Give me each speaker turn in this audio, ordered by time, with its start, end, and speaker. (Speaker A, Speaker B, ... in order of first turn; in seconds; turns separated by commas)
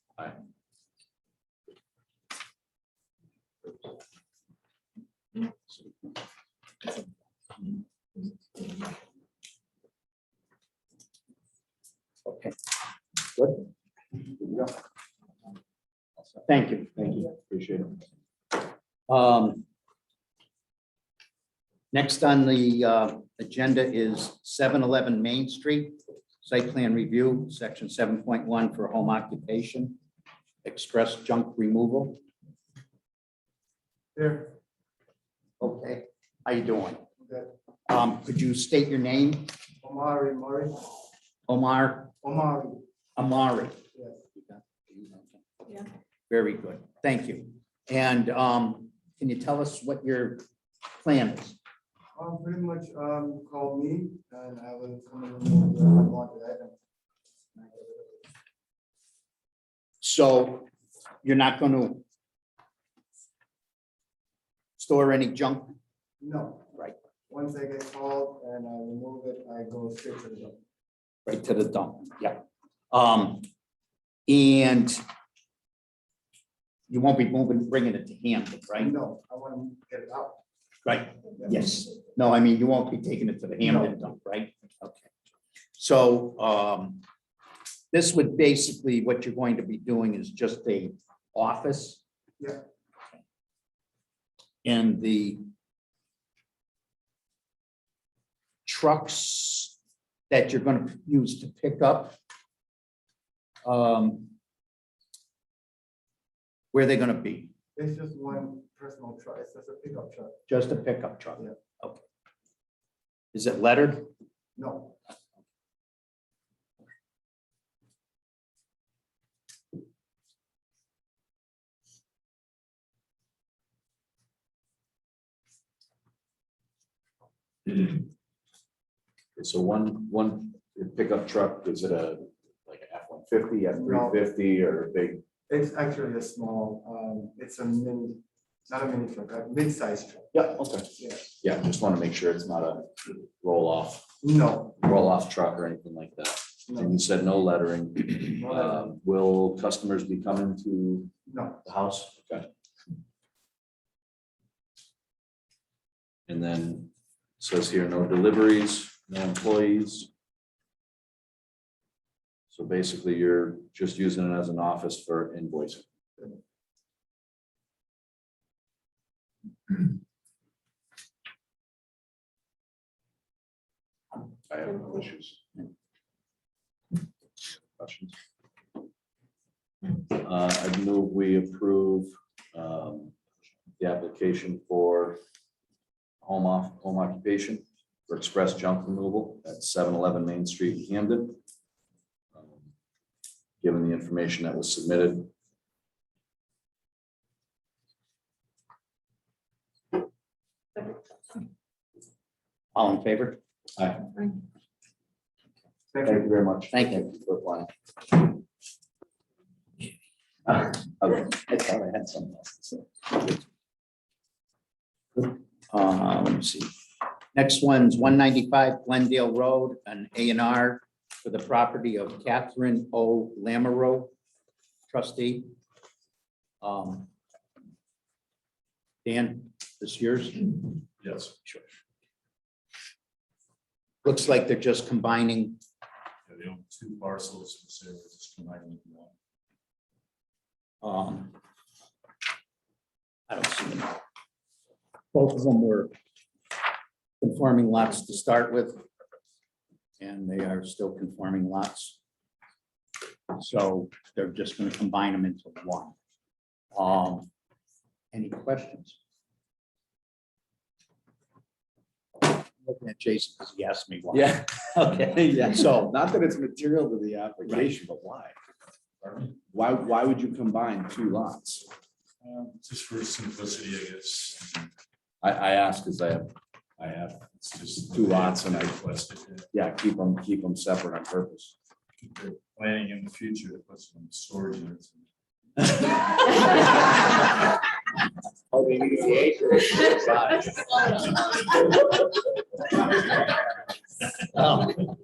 Speaker A: 12.2-12.5, Speaker A: 13.4-13.6, Speaker A: 16.4-17.1, Speaker B: 16.9-18.0, Speaker A: 19.1-19.6, Speaker A: 21.9-30.0, Speaker A: 30.6-32.2, Speaker C: 34.1-34.6, Speaker A: 35.6-37.0, Speaker C: 37.2-37.5, Speaker A: 37.9-39.5, Speaker C: 39.8-40.7, Speaker A: 41.5-42.1, Speaker C: 42.2-42.8, Speaker A: 43.2-43.8, Speaker C: 43.9-44.2, Speaker A: 44.4-45.8, Speaker A: 46.3-50.4, Speaker A: 50.9-51.6, Speaker C: 52.1-56.8, Speaker C: 57.5-58.3, Speaker A: 60.0-60.7, Speaker A: 61.2-62.0, Speaker A: 64.8-65.8, Speaker C: 66.2-66.7, Speaker C: 67.3-70.6, Speaker A: 71.2-73.5, Speaker A: 74.3-75.0, Speaker A: 76.9-78.9, Speaker C: 78.8-80.4, Speaker A: 80.8-85.1, Speaker C: 83.6-83.9, Speaker A: 85.8-87.0, Speaker A: 87.9-92.0, Speaker A: 94.6-95.4, Speaker A: 98.6-99.7, Speaker A: 100.3-102.2, Speaker A: 103.6-104.3, Speaker A: 106.7-107.5, Speaker C: 107.8-110.4, Speaker A: 110.5-112.0, Speaker A: 113.3-114.1, Speaker C: 114.6-115.0, Speaker B: 129.4-135.2, Speaker C: 133.7-134.2, Speaker C: 135.5-140.3, Speaker B: 140.3-140.9, Speaker C: 141.0-141.2, Speaker B: 141.4-144.1, Speaker C: 144.2-144.8, Speaker B: 144.8-151.1, Speaker C: 146.7-147.0, Speaker C: 148.4-148.9, Speaker C: 151.3-151.6, Speaker B: 151.6-152.5, Speaker B: 156.3-160.1, Speaker B: 162.5-165.8, Speaker B: 174.5-175.4, Speaker B: 177.4-178.2, Speaker B: 180.1-183.1, Speaker B: 183.8-185.2, Speaker B: 186.2-191.4, Speaker B: 192.3-192.6, Speaker B: 193.6-195.3, Speaker A: 202.7-203.4, Speaker B: 203.8-204.3, Speaker B: 205.9-207.7, Speaker A: 206.7-207.1, Speaker B: 210.5-213.4, Speaker A: 215.2-216.7, Speaker A: 217.3-224.1, Speaker A: 224.9-225.5, Speaker A: 226.6-227.1, Speaker A: 229.0-230.6, Speaker D: 231.0-231.3, Speaker A: 234.0-235.6, Speaker D: 236.3-239.1, Speaker A: 240.8-241.3, Speaker A: 243.3-244.0, Speaker A: 245.1-245.9, Speaker A: 247.2-248.8, Speaker A: 250.0-252.0, Speaker A: 253.3-255.9, Speaker A: 256.7-257.3, Speaker A: 258.1-259.0, Speaker A: 262.6-265.9, Speaker B: 264.1-268.3, Speaker D: 269.0-269.3, Speaker B: 269.5-271.6, Speaker D: 272.2-274.7, Speaker B: 275.2-276.3, Speaker D: 276.8-279.5, Speaker B: 277.9-278.9, Speaker B: 279.5-281.5, Speaker D: 282.2-285.0, Speaker A: 289.7-290.1, Speaker A: 294.4-294.7